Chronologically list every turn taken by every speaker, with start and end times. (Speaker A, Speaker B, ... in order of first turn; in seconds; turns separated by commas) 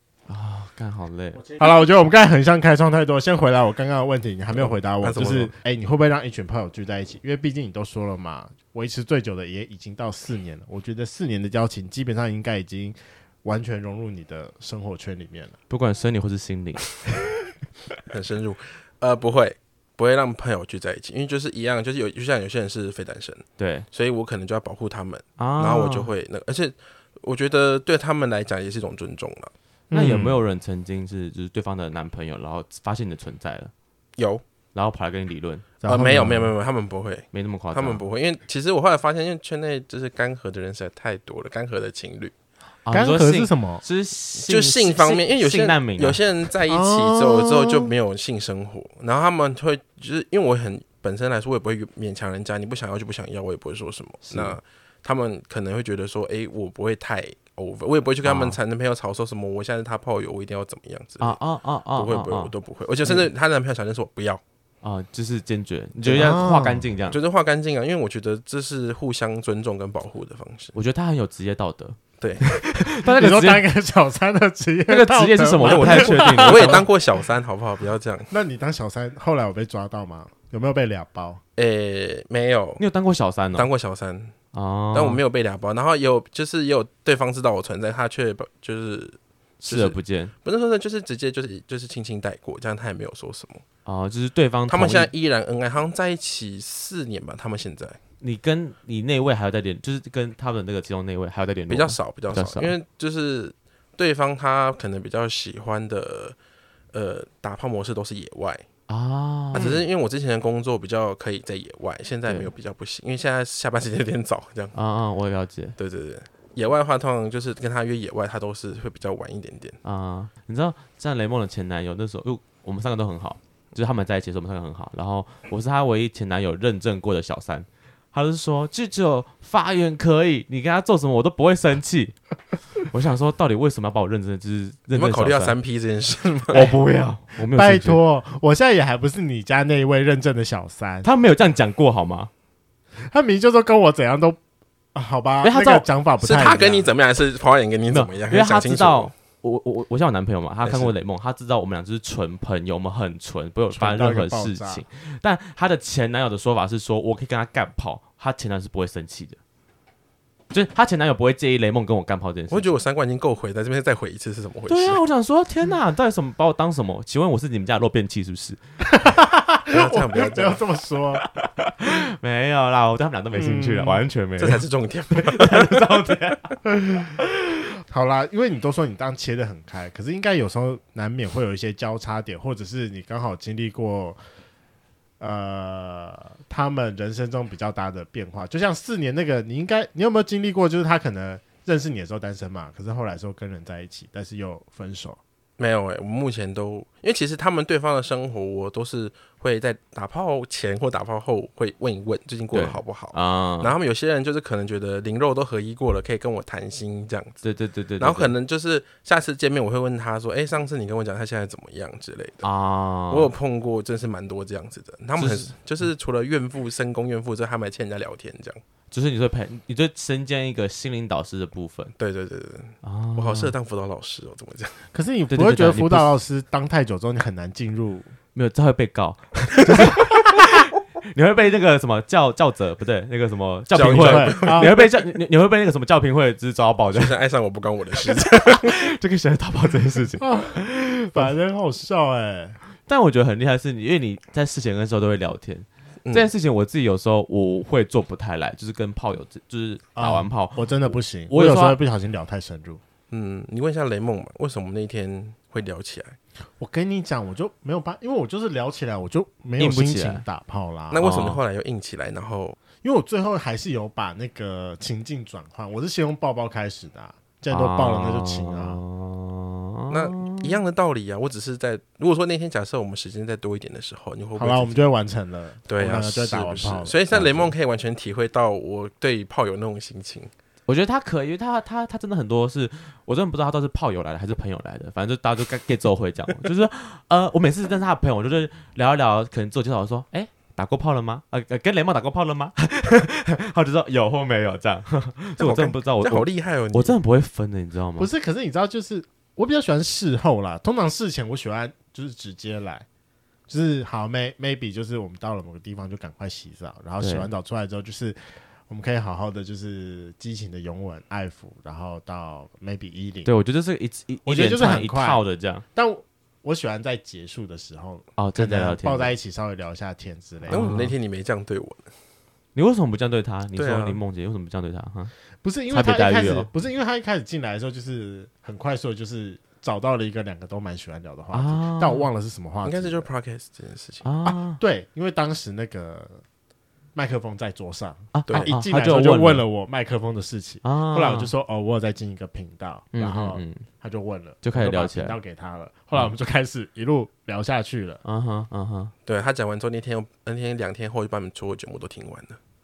Speaker A: 0.3-1.4, Speaker B: 1.5-15.6, Speaker C: 4.6-5.5, Speaker A: 15.7-17.0, Speaker C: 18.1-29.5, Speaker A: 23.6-23.9, Speaker A: 25.4-26.1, Speaker B: 29.9-30.4, Speaker A: 29.9-33.7, Speaker C: 34.2-34.4, Speaker A: 34.7-35.6, Speaker B: 35.8-36.5, Speaker C: 35.9-42.3, Speaker A: 37.3-38.0, Speaker A: 42.8-46.2, Speaker B: 42.9-43.8, Speaker C: 44.4-61.4, Speaker B: 46.7-47.9, Speaker A: 54.3-54.5, Speaker A: 58.2-58.6, Speaker A: 61.2-62.5, Speaker C: 61.9-64.4, Speaker A: 64.8-67.2, Speaker B: 66.0-66.9, Speaker C: 67.1-70.7, Speaker A: 70.7-73.6, Speaker C: 72.2-72.5, Speaker B: 73.0-76.9, Speaker A: 74.9-76.9, Speaker C: 75.6-78.3, Speaker B: 78.3-81.4, Speaker C: 81.5-82.8, Speaker A: 82.8-83.7, Speaker C: 83.5-84.3, Speaker A: 84.5-85.2, Speaker C: 84.9-93.6, Speaker A: 89.6-90.3, Speaker A: 93.8-95.1, Speaker C: 94.7-98.0, Speaker A: 98.2-102.7, Speaker C: 101.7-106.3, Speaker C: 106.9-108.6, Speaker A: 108.9-109.8, Speaker C: 109.5-114.7, Speaker A: 114.7-115.8, Speaker C: 115.8-119.8, Speaker A: 119.8-132.2, Speaker A: 132.8-135.6, Speaker C: 134.9-136.7, Speaker A: 136.5-138.0, Speaker B: 137.5-141.1, Speaker A: 141.0-142.3, Speaker B: 143.0-144.4, Speaker B: 144.9-146.9, Speaker A: 145.4-145.8, Speaker C: 146.2-149.1, Speaker A: 147.9-159.4, Speaker C: 150.6-150.9, Speaker B: 153.7-154.8, Speaker A: 160.5-162.7, Speaker C: 162.5-165.0, Speaker A: 164.7-168.6, Speaker B: 168.9-171.2, Speaker C: 169.7-170.6, Speaker A: 171.2-176.6, Speaker B: 173.3-174.0, Speaker C: 174.4-176.0, Speaker B: 177.9-184.2, Speaker B: 185.2-195.2, Speaker C: 195.6-207.4, Speaker A: 202.5-203.7, Speaker A: 207.4-208.3, Speaker C: 208.0-212.4, Speaker A: 212.4-213.3, Speaker C: 213.1-218.6, Speaker A: 215.2-215.5, Speaker A: 218.9-221.9, Speaker C: 222.0-224.8, Speaker A: 222.8-223.5, Speaker B: 224.9-228.1, Speaker A: 225.3-226.2, Speaker A: 228.3-237.1, Speaker C: 233.7-234.8, Speaker B: 233.9-234.8, Speaker C: 236.9-238.8, Speaker A: 238.1-241.3, Speaker B: 240.2-242.6, Speaker A: 242.8-251.8, Speaker C: 246.0-246.3, Speaker B: 249.9-252.8, Speaker C: 253.1-256.2, Speaker B: 256.6-261.1, Speaker A: 259.6-260.2, Speaker C: 260.9-262.6, Speaker A: 261.0-261.4, Speaker B: 262.8-268.8, Speaker A: 267.5-270.6, Speaker C: 269.9-274.8, Speaker B: 274.4-277.5, Speaker C: 275.7-280.3, Speaker A: 280.7-298.1, Speaker C: 295.4-296.9, Speaker B: 298.0-302.9, Speaker B: 303.5-313.3, Speaker A: 307.0-307.3, Speaker A: 313.2-315.6, Speaker B: 314.2-315.2, Speaker B: 315.7-320.7, Speaker A: 318.2-319.1, Speaker A: 320.5-320.9, Speaker C: 320.5-321.9, Speaker A: 322.5-325.1, Speaker C: 323.6-324.0, Speaker B: 325.4-333.1, Speaker A: 325.7-326.5, Speaker A: 331.3-332.1, Speaker C: 332.6-334.0, Speaker A: 334.0-334.6, Speaker B: 334.3-336.2, Speaker B: 336.9-348.0, Speaker A: 338.1-339.4, Speaker C: 338.3-338.5, Speaker A: 340.6-341.3, Speaker A: 342.9-343.6, Speaker A: 344.4-345.1, Speaker A: 348.0-348.9, Speaker C: 349.1-352.4